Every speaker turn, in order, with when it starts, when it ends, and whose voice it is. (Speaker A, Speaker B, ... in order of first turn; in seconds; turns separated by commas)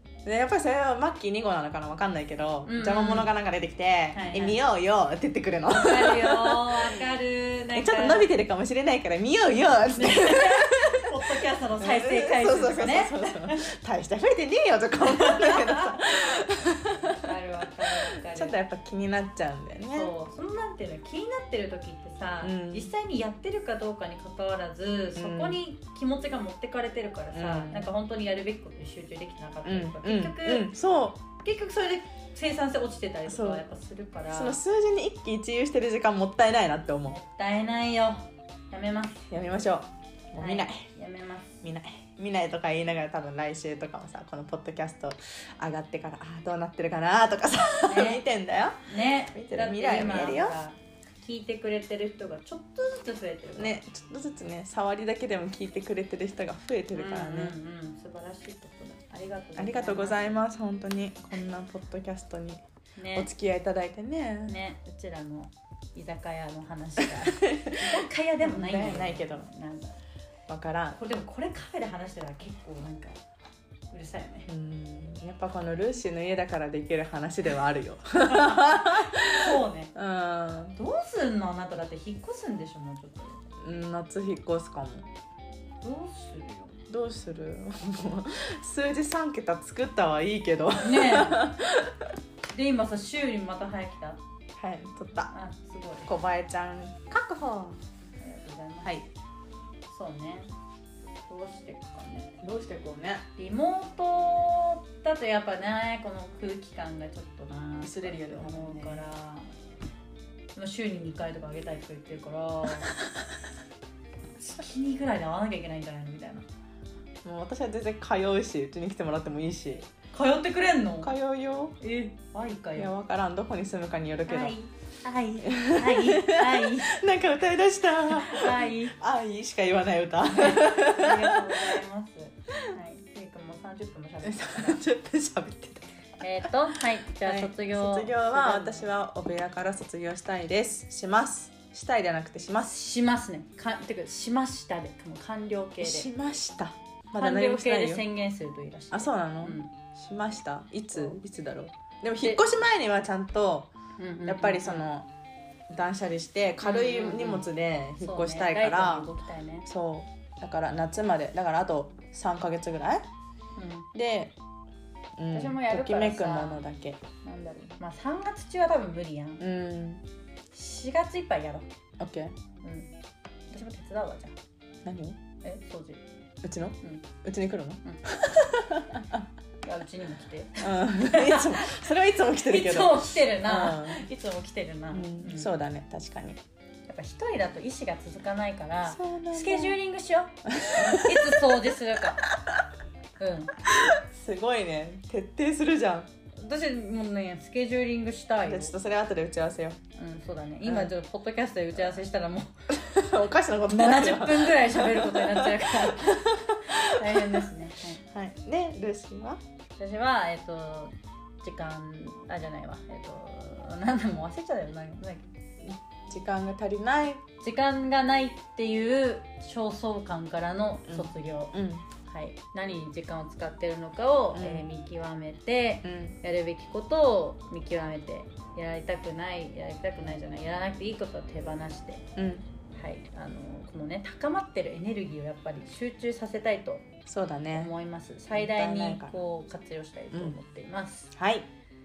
Speaker A: 0.2-7.0, Speaker B: 2.6-3.3, Speaker B: 4.1-4.6, Speaker B: 5.7-8.3, Speaker A: 7.7-11.2, Speaker B: 9.9-13.7, Speaker A: 11.8-17.3, Speaker B: 15.0-16.2, Speaker B: 17.1-18.6, Speaker A: 18.1-20.1, Speaker B: 19.9-30.7, Speaker A: 22.4-22.9, Speaker A: 25.1-25.6, Speaker A: 27.3-27.9, Speaker A: 29.6-31.2, Speaker B: 31.4-34.6, Speaker A: 33.2-33.6, Speaker A: 34.3-37.2, Speaker B: 37.1-39.3, Speaker A: 39.3-40.9, Speaker B: 40.4-41.6, Speaker A: 41.6-50.6, Speaker B: 47.9-48.2, Speaker B: 48.9-53.8, Speaker A: 53.6-57.6, Speaker B: 56.9-60.4, Speaker A: 59.5-62.6, Speaker B: 63.0-63.3, Speaker A: 63.1-64.5, Speaker B: 64.5-70.0, Speaker A: 67.0-69.5, Speaker A: 70.5-71.0, Speaker B: 71.0-73.2, Speaker B: 73.9-74.5, Speaker A: 74.5-80.8, Speaker B: 78.2-79.9, Speaker B: 80.7-83.5, Speaker A: 83.6-85.1, Speaker B: 85.8-86.8, Speaker A: 86.9-92.1, Speaker B: 90.8-91.5, Speaker B: 92.5-94.2, Speaker A: 94.6-95.3, Speaker B: 95.3-96.1, Speaker A: 96.0-97.8, Speaker B: 98.2-99.0, Speaker B: 99.9-100.5, Speaker B: 101.3-102.4, Speaker A: 102.4-103.2, Speaker B: 103.4-109.5, Speaker A: 107.8-109.0, Speaker B: 110.5-112.9, Speaker B: 114.5-116.5, Speaker A: 117.2-119.9, Speaker B: 120.1-121.1, Speaker A: 121.0-121.8, Speaker B: 121.8-122.9, Speaker A: 122.8-124.5, Speaker B: 124.3-127.0, Speaker A: 125.4-131.8, Speaker B: 128.1-129.0, Speaker B: 130.2-134.8, Speaker A: 134.2-135.9, Speaker B: 136.2-138.9, Speaker A: 136.7-142.8, Speaker B: 142.6-146.1, Speaker A: 145.8-148.1, Speaker B: 147.2-149.7, Speaker A: 148.9-153.7, Speaker B: 150.9-151.2, Speaker B: 152.2-152.5, Speaker B: 154.0-154.8, Speaker A: 154.2-155.1, Speaker A: 155.7-159.1, Speaker B: 156.6-157.5, Speaker B: 158.0-159.7, Speaker A: 159.6-163.0, Speaker B: 163.6-163.9, Speaker A: 163.9-164.3, Speaker A: 165.2-167.0, Speaker B: 165.3-166.6, Speaker B: 167.2-169.4, Speaker A: 169.4-170.0, Speaker B: 170.5-171.7, Speaker A: 172.0-172.3, Speaker B: 172.6-172.9, Speaker B: 173.5-174.3, Speaker A: 174.8-175.2, Speaker B: 175.4-176.0, Speaker A: 176.4-179.3, Speaker B: 176.8-177.1, Speaker B: 179.6-185.5, Speaker A: 180.6-184.1, Speaker A: 184.9-186.4, Speaker B: 186.9-192.2, Speaker A: 188.9-189.8, Speaker A: 190.5-191.6, Speaker A: 192.2-192.6, Speaker B: 193.2-193.6, Speaker A: 193.7-196.1, Speaker B: 196.3-198.8, Speaker A: 198.4-199.8, Speaker B: 199.9-202.7, Speaker A: 200.6-200.9, Speaker A: 202.7-209.4, Speaker B: 203.7-208.0, Speaker B: 209.8-215.3, Speaker A: 216.1-217.2, Speaker B: 217.4-232.0, Speaker A: 220.9-221.8, Speaker A: 224.3-224.7, Speaker A: 225.8-226.2, Speaker A: 232.2-232.4, Speaker B: 232.7-236.9, Speaker A: 237.1-237.7, Speaker B: 237.5-241.1, Speaker A: 238.3-239.2, Speaker A: 240.1-240.4, Speaker A: 241.1-241.5